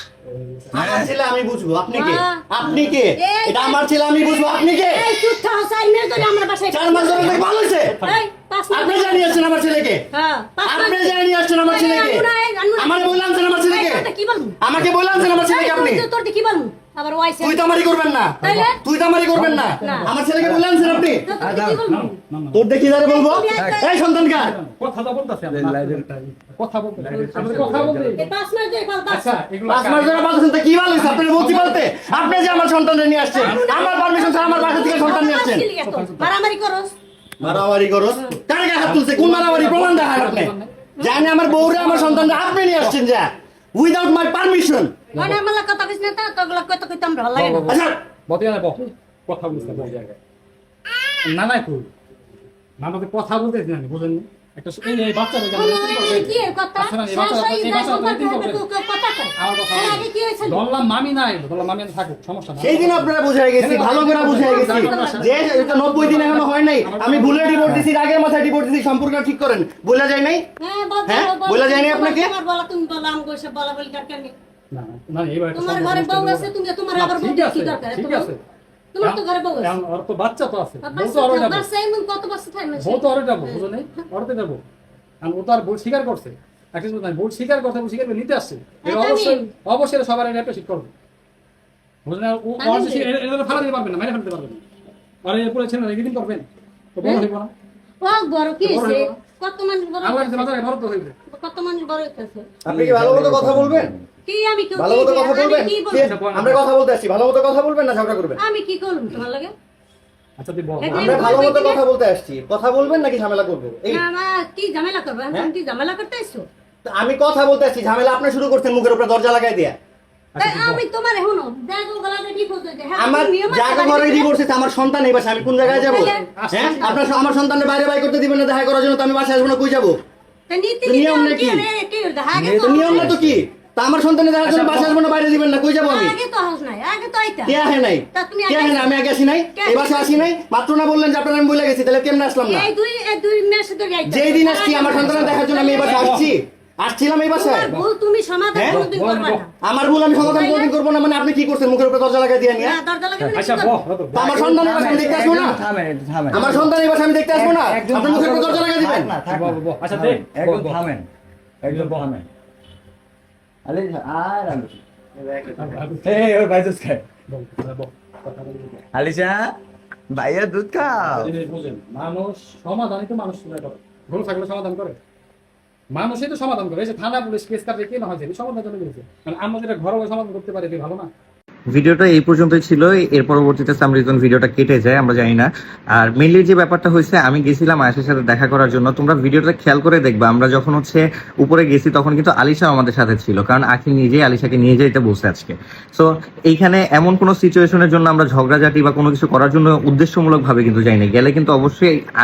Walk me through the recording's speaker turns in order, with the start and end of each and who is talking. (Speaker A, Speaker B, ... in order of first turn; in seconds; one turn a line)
Speaker A: 0.2-1.0
Speaker B: 0.7-5.1
Speaker C: 0.7-1.1
Speaker D: 1.9-7.5
Speaker B: 6.7-8.0
Speaker D: 8.0-9.6
Speaker B: 8.7-10.0
Speaker D: 10.1-14.6
Speaker B: 10.6-14.1
Speaker B: 14.6-16.1
Speaker D: 15.3-17.8
Speaker B: 17.4-21.3
Speaker D: 18.4-18.8
Speaker A: 18.4-18.7
Speaker A: 19.3-20.1
Speaker D: 19.8-20.1
Speaker C: 20.4-21.9
Speaker A: 20.8-22.7
Speaker D: 21.2-22.1
Speaker B: 22.5-24.5
Speaker D: 23.0-24.0
Speaker C: 23.5-23.9
Speaker A: 24.3-28.3
Speaker C: 25.4-26.1
Speaker C: 26.9-28.3
Speaker D: 27.1-29.3
Speaker A: 29.1-30.3
Speaker B: 29.7-35.7
Speaker A: 30.9-31.9
Speaker D: 31.4-32.7
Speaker D: 33.3-37.0
Speaker A: 33.4-36.3
Speaker B: 37.4-45.0
Speaker D: 38.1-38.4
Speaker A: 38.8-43.0
Speaker D: 41.0-41.2
Speaker D: 45.1-47.7
Speaker A: 47.3-50.1
Speaker B: 47.7-48.0
Speaker A: 51.2-51.9
Speaker A: 52.8-58.6
Speaker D: 55.5-60.6
Speaker A: 59.4-67.9
Speaker B: 62.6-70.5
Speaker D: 64.3-66.2
Speaker D: 70.6-74.3
Speaker B: 71.1-72.3
Speaker A: 74.7-78.4
Speaker D: 75.5-78.3
Speaker D: 78.9-79.7
Speaker A: 79.0-81.7
Speaker D: 80.8-83.7
Speaker A: 82.8-84.6
Speaker A: 85.2-90.9
Speaker D: 88.8-89.5
Speaker A: 92.0-94.6
Speaker D: 92.6-93.1
Speaker A: 95.2-97.5
Speaker D: 98.0-100.5
Speaker A: 98.6-99.1
Speaker A: 100.0-101.1
Speaker D: 101.3-102.5
Speaker B: 102.6-103.9
Speaker C: 102.7-104.0
Speaker D: 104.2-106.1
Speaker B: 104.8-108.4
Speaker A: 106.0-106.6
Speaker D: 108.4-109.5
Speaker A: 110.4-111.4
Speaker D: 110.8-111.8
Speaker B: 110.9-114.0
Speaker D: 113.9-116.5
Speaker B: 116.8-119.8
Speaker A: 120.3-120.8
Speaker D: 120.4-124.3
Speaker B: 123.0-130.0
Speaker A: 125.6-127.1
Speaker D: 125.8-126.9
Speaker D: 130.5-133.2
Speaker B: 130.8-131.7
Speaker C: 132.3-133.4
Speaker B: 132.6-136.2
Speaker A: 134.4-135.0
Speaker D: 135.8-137.6
Speaker B: 137.4-142.7
Speaker D: 138.1-138.9
Speaker D: 139.5-140.3
Speaker D: 142.4-146.2
Speaker B: 144.1-147.7
Speaker A: 144.9-146.3
Speaker D: 147.3-149.5
Speaker B: 148.5-148.8
Speaker A: 148.7-149.4
Speaker B: 149.6-152.8
Speaker D: 150.2-150.7
Speaker D: 152.6-153.8
Speaker C: 153.2-153.7
Speaker A: 153.3-154.8
Speaker B: 154.1-155.6
Speaker C: 154.3-156.7
Speaker B: 156.3-159.2
Speaker C: 157.3-161.1
Speaker A: 159.2-160.9
Speaker C: 161.6-162.3
Speaker A: 161.6-162.1
Speaker C: 163.7-167.1
Speaker A: 165.6-166.3
Speaker A: 167.3-168.8
Speaker C: 168.9-169.6
Speaker C: 170.1-171.3
Speaker A: 170.9-175.0
Speaker A: 175.9-181.1
Speaker E: 181.7-202.0